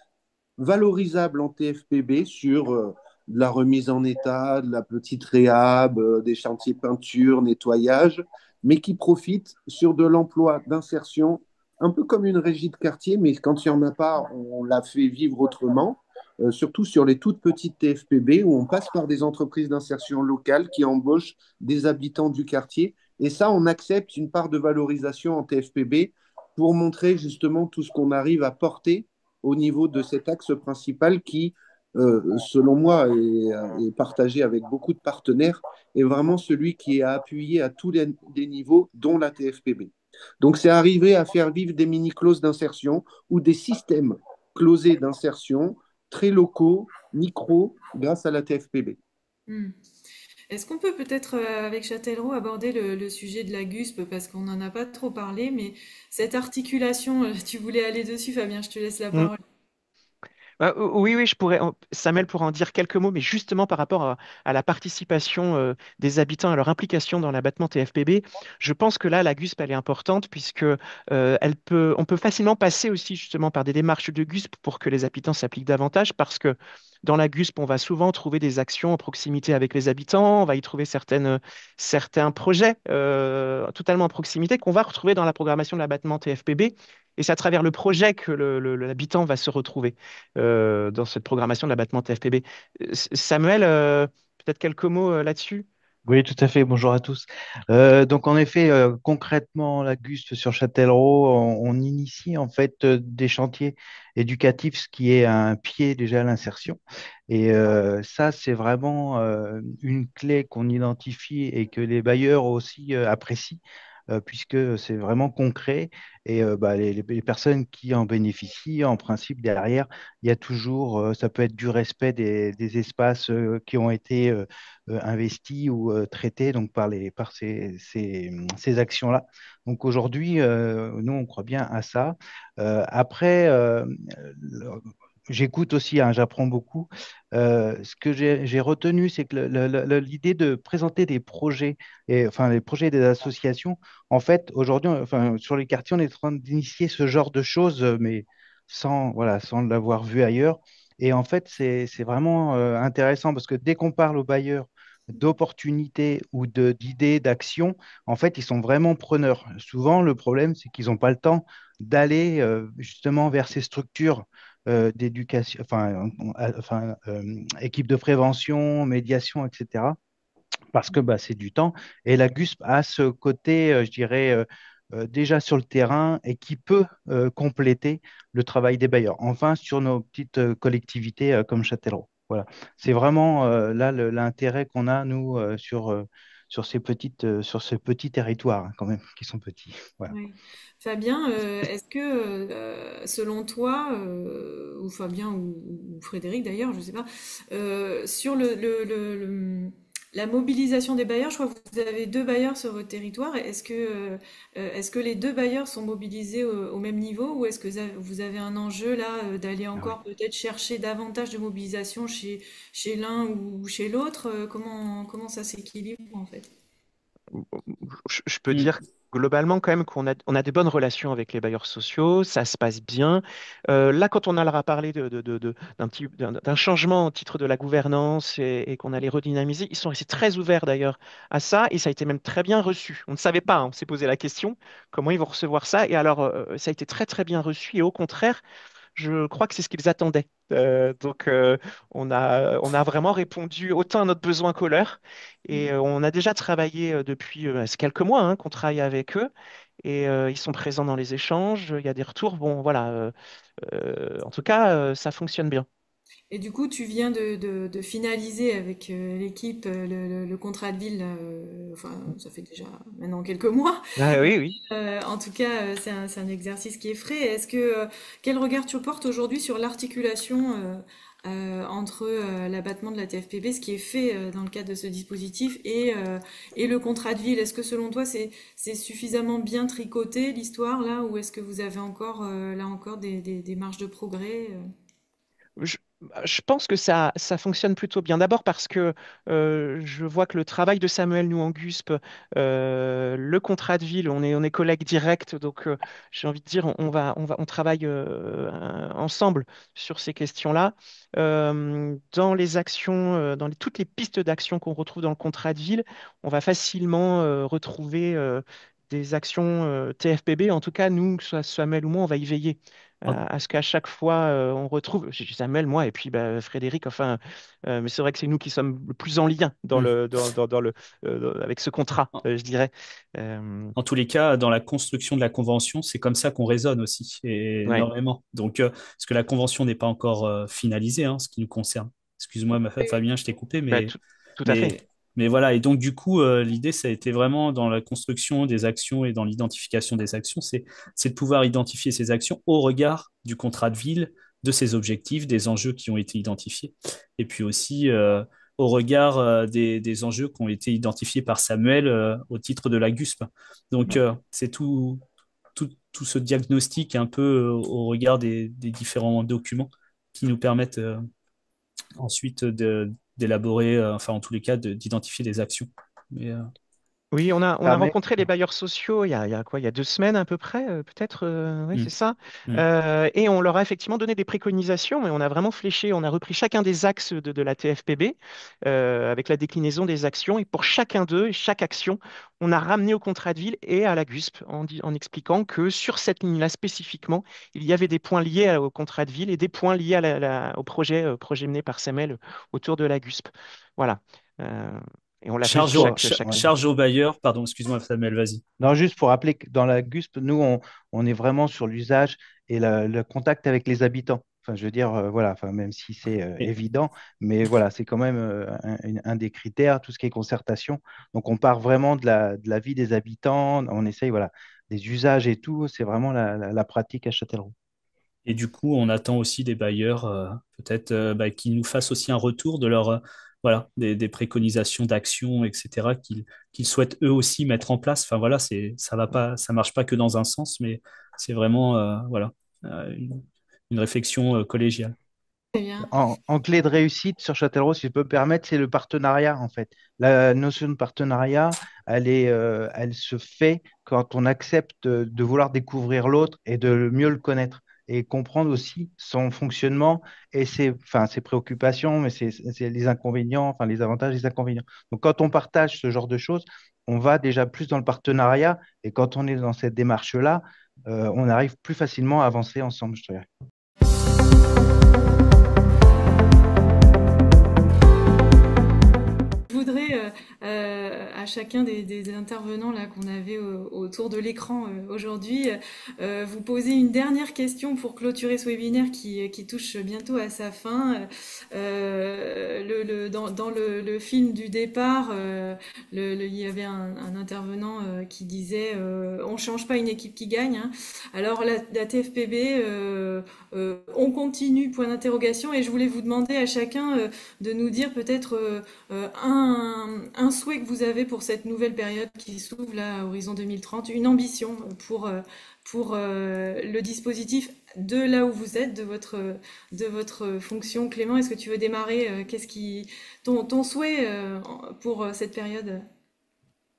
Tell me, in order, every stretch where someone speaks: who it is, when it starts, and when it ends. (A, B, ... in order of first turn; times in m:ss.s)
0:00.6-0:49.0 A
0:49.5-0:49.7 B
0:50.5-0:59.4 B
1:00.6-1:35.7 C
1:36.0-2:50.0 D
2:50.7-3:10.1 D
3:10.1-3:36.5 B
3:37.3-3:58.4 C
3:59.0-4:09.3 C
4:09.8-4:15.6 C
4:16.3-4:24.0 B
4:24.0-4:24.6 C
4:24.7-4:44.6 B
4:45.6-5:23.7 C
5:23.8-5:33.9 E
5:33.7-5:34.7 C
5:34.4-5:55.0 E
5:55.5-6:01.0 E
6:02.0-6:06.5 E
6:07.1-6:36.4 C
6:07.6-6:07.9 E
6:35.4-6:38.4 E
6:36.1-6:36.4 D
6:38.6-6:57.5 D
6:58.2-7:14.9 E
7:15.5-7:15.9 B
7:15.9-7:43.3 D
7:49.5-8:35.8 B